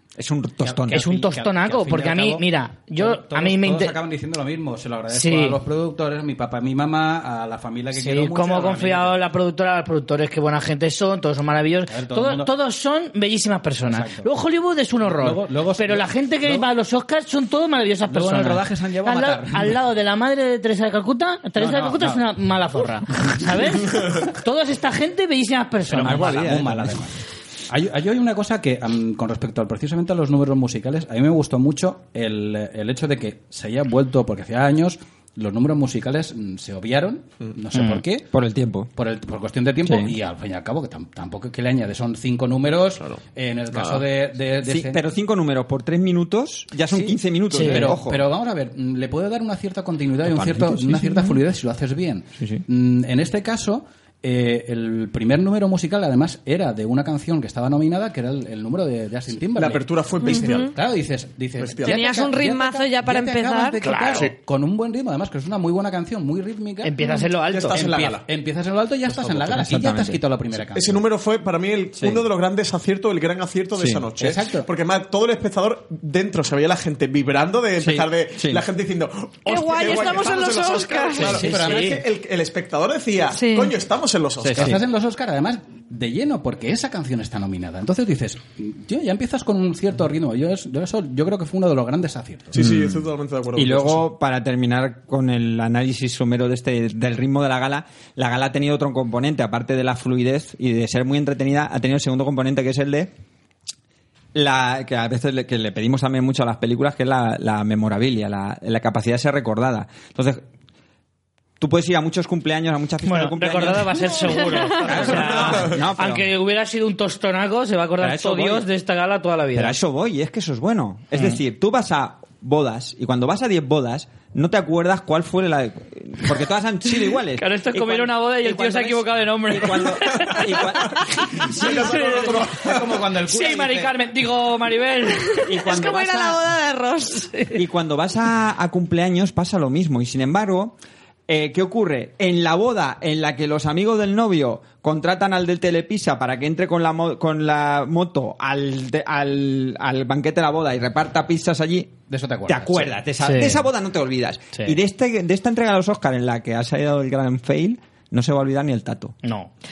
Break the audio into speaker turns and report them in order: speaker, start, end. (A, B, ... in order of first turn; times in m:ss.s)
0:00.2-0:01.1 A
0:00.6-0:09.2 B
0:00.9-0:03.9 C
0:05.1-0:05.6 C
0:07.9-0:26.6 C
0:11.9-0:12.5 B
0:13.9-0:14.3 B
0:15.0-0:16.7 B
0:18.1-0:19.8 B
0:21.6-0:22.2 B
0:25.9-0:27.1 B
0:26.0-0:27.0 A
0:27.7-0:38.3 B
0:37.7-0:38.0 C
0:38.3-0:38.9 A
0:38.9-0:45.0 B
0:39.8-0:40.1 A
0:43.7-0:44.0 D
0:44.6-0:48.2 A
0:46.9-1:06.9 B
0:47.5-0:47.9 C
0:50.2-0:51.1 A
0:59.6-1:00.7 D
1:00.2-1:00.7 E
1:01.6-1:02.0 D
1:01.8-1:03.8 E
1:03.8-1:04.3 C
1:06.8-1:07.9 C
1:07.0-1:07.2 E
1:07.4-1:08.3 D
1:07.7-1:11.0 B
1:09.2-1:10.2 A
1:10.7-1:24.8 D
1:12.0-1:12.2 A
1:13.8-1:14.0 A
1:14.2-1:14.7 B
1:17.8-1:18.6 A
1:19.4-1:21.4 E
1:21.2-1:22.0 B
1:21.4-1:22.0 C
1:23.3-1:23.7 E
1:24.4-1:24.8 A
1:24.5-1:32.6 B
1:32.5-1:34.0 D
1:32.6-1:33.0 A
1:33.6-1:43.1 A
1:44.3-1:50.4 A
1:51.6-1:56.3 A
1:53.0-1:59.8 C
1:58.0-1:58.6 A
1:59.5-2:11.5 A
2:07.4-2:12.4 C
2:10.9-2:13.1 D
2:11.5-2:13.9 B
2:13.2-2:15.5 C
2:15.3-2:17.4 E
2:15.4-2:16.4 A
2:17.5-2:20.8 A
2:21.3-2:39.2 A
2:32.1-2:33.0 B
2:33.2-2:33.6 C
2:39.2-2:39.5 C